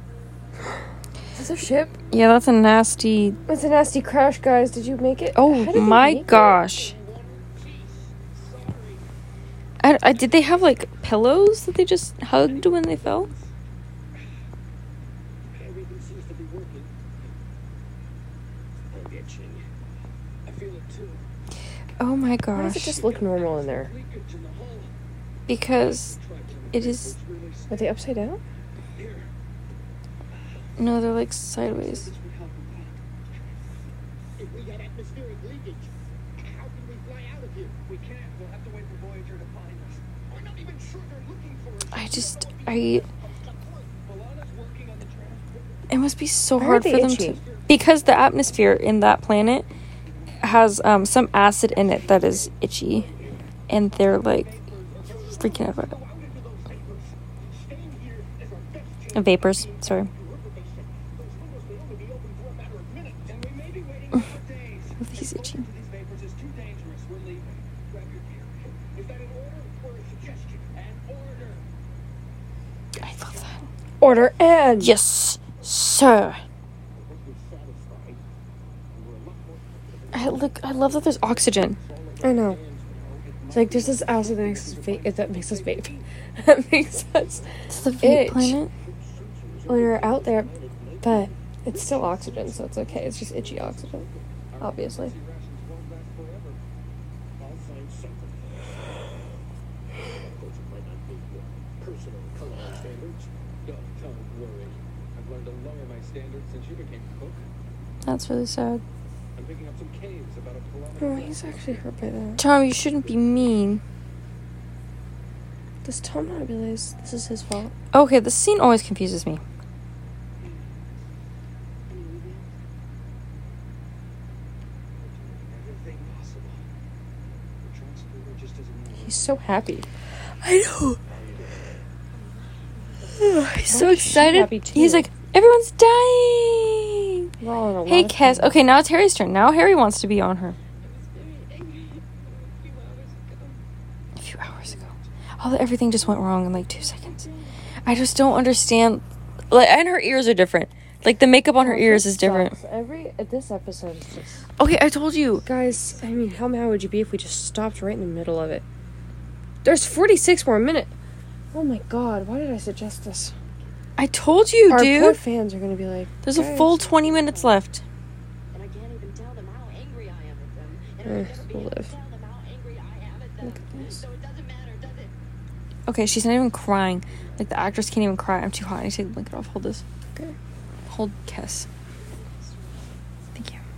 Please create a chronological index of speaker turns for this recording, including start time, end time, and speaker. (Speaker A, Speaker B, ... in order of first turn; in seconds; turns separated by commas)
Speaker A: 1.4-1.9, Speaker B: 1.9-3.4, Speaker A: 3.5-6.6, Speaker B: 5.3-7.0, Speaker C: 6.3-9.1, Speaker B: 9.8-13.3, Speaker C: 12.4-13.5, Speaker C: 15.5-17.1, Speaker C: 18.9-19.7, Speaker C: 20.4-21.3, Speaker B: 22.0-23.0, Speaker A: 22.6-23.9, Speaker C: 22.8-25.0, Speaker B: 25.5-26.2, Speaker C: 25.7-28.0, Speaker B: 26.7-27.2, Speaker A: 27.7-28.4, Speaker C: 28.9-29.3, Speaker C: 30.3-30.9, Speaker B: 30.8-32.1, Speaker C: 31.6-33.8, Speaker C: 34.4-45.9, Speaker B: 41.9-43.1, Speaker B: 45.9-49.7, Speaker A: 46.6-47.4, Speaker C: 47.2-48.8, Speaker B: 50.4-53.1, Speaker C: 51.7-53.4, Speaker B: 53.7-54.5, Speaker C: 53.9-71.7, Speaker B: 55.3-56.0, Speaker B: 59.1-60.1, Speaker B: 65.0-65.7, Speaker B: 73.0-73.6, Speaker A: 74.0-74.9, Speaker B: 74.8-76.4, Speaker C: 76.9-78.3, Speaker C: 78.9-88.0, Speaker B: 80.1-81.8, Speaker A: 82.2-82.6, Speaker A: 83.5-88.6, Speaker B: 87.7-88.7, Speaker C: 88.7-96.6, Speaker A: 89.7-90.5, Speaker A: 91.0-94.1, Speaker A: 94.6-95.1, Speaker C: 97.3-99.1, Speaker C: 100.0-107.5, Speaker B: 108.0-108.8, Speaker C: 109.3-111.9, Speaker A: 111.0-112.4, Speaker B: 112.4-113.8, Speaker C: 113.0-113.4, Speaker A: 115.8-117.7, Speaker B: 117.9-119.4, Speaker D: 121.9-122.5, Speaker C: 125.0-126.7, Speaker C: 127.6-129.4, Speaker A: 129.0-129.9, Speaker B: 130.4-131.0, Speaker C: 131.1-131.8, Speaker D: 132.1-133.2, Speaker B: 133.2-137.3, Speaker A: 133.6-135.1, Speaker A: 137.4-138.6, Speaker B: 137.9-140.6, Speaker D: 140.8-143.6, Speaker B: 144.2-144.9, Speaker C: 144.4-145.0, Speaker B: 145.4-147.2, Speaker D: 147.0-147.6, Speaker B: 147.8-152.5, Speaker A: 151.6-154.5, Speaker B: 154.6-155.5, Speaker A: 155.4-158.6, Speaker A: 159.6-160.9, Speaker A: 161.5-163.3, Speaker B: 164.0-165.2, Speaker A: 164.7-166.8, Speaker B: 166.2-167.8, Speaker D: 168.5-175.1, Speaker A: 171.1-171.9, Speaker A: 173.4-174.0, Speaker B: 175.9-179.8, Speaker C: 177.1-177.7, Speaker B: 180.9-181.7, Speaker D: 182.0-182.8, Speaker B: 183.3-183.6